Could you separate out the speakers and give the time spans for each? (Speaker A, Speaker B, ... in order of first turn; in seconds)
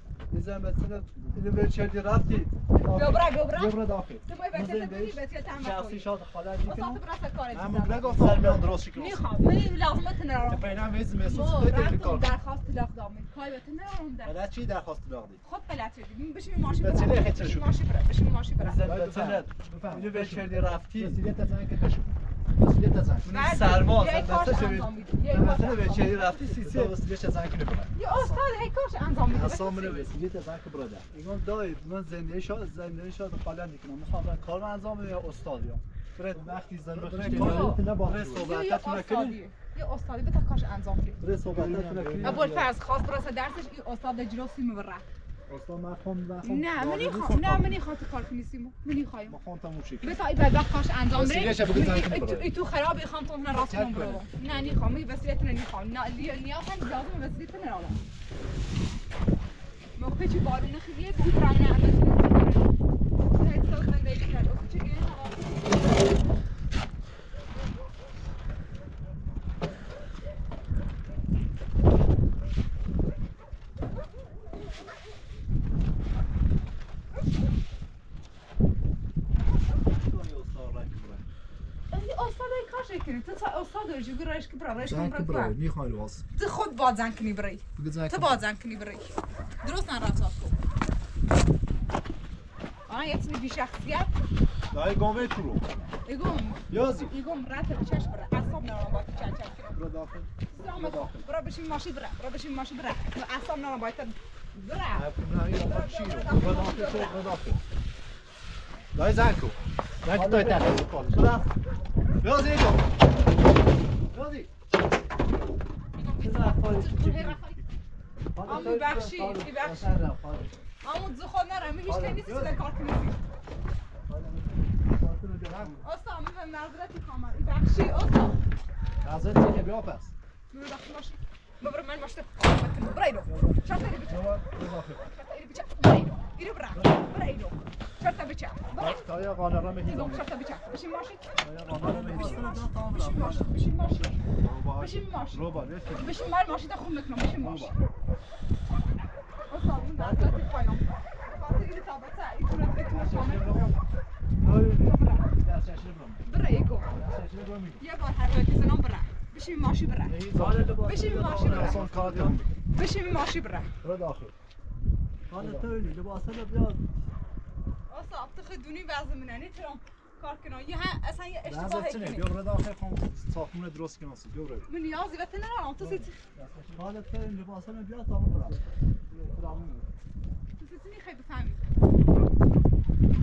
Speaker A: 0.3-3.2, 4.5-7.0, 8.1-8.8, 18.6-21.2, 23.2-27.0, 31.1-39.4, 41.4-42.7, 110.1-111.5, 116.2-117.4, 118.3-120.6, 124.0-125.8, 133.3-133.6, 141.7-143.6, 154.4-155.0, 160.3-162.4, 165.3-166.9, 176.4-179.9
Speaker B: 2.8-6.1, 6.6-8.3, 8.9-14.4, 15.4-18.8, 23.3-26.5, 27.9-30.1, 37.2-41.2, 42.2-45.0, 46.4-49.4, 50.0-58.0, 60.0-62.7, 63.3-65.8, 81.9-85.6, 86.4-90.6, 92.9-94.1, 96.1-99.8, 100.5-107.2, 116.0-117.6, 118.5-120.0, 120.8-123.2, 125.8-128.4, 130.5-134.4, 135.0-139.1, 139.8-141.3, 142.8-144.2, 144.8-147.8, 149.5-153.8, 154.8-155.3, 156.3-156.9, 157.8-160.2, 160.8-161.9, 162.7-163.7, 167.9-172.3, 174.7-176.2, 180.6-181.7
Speaker C: 3.5-4.3, 7.5-9.4, 10.4-12.4, 14.2-15.4, 16.7-17.8, 18.8-23.3, 25.3-25.8, 26.4-27.9, 29.3-31.1, 36.3-38.5, 41.2-42.5, 45.5-47.8, 49.3-50.2, 51.1-52.5, 53.5-54.8, 79.7-81.3, 84.8-86.2, 87.8-88.5, 94.7-95.7, 96.7-97.2, 99.7-101.3, 104.9-107.6, 108.9-111.3, 112.2-112.9, 114.1-114.5, 121.8-122.6, 125.5-125.8, 129.0-130.1, 134.1-135.1, 138.8-140.3, 141.4-142.7, 144.0-146.2, 147.4-147.8, 149.8-150.5, 152.9-153.8, 155.4-156.3, 156.9-157.8, 160.1-162.5, 163.8-164.3, 165.4-165.7, 171.5-174.7, 175.8-176.7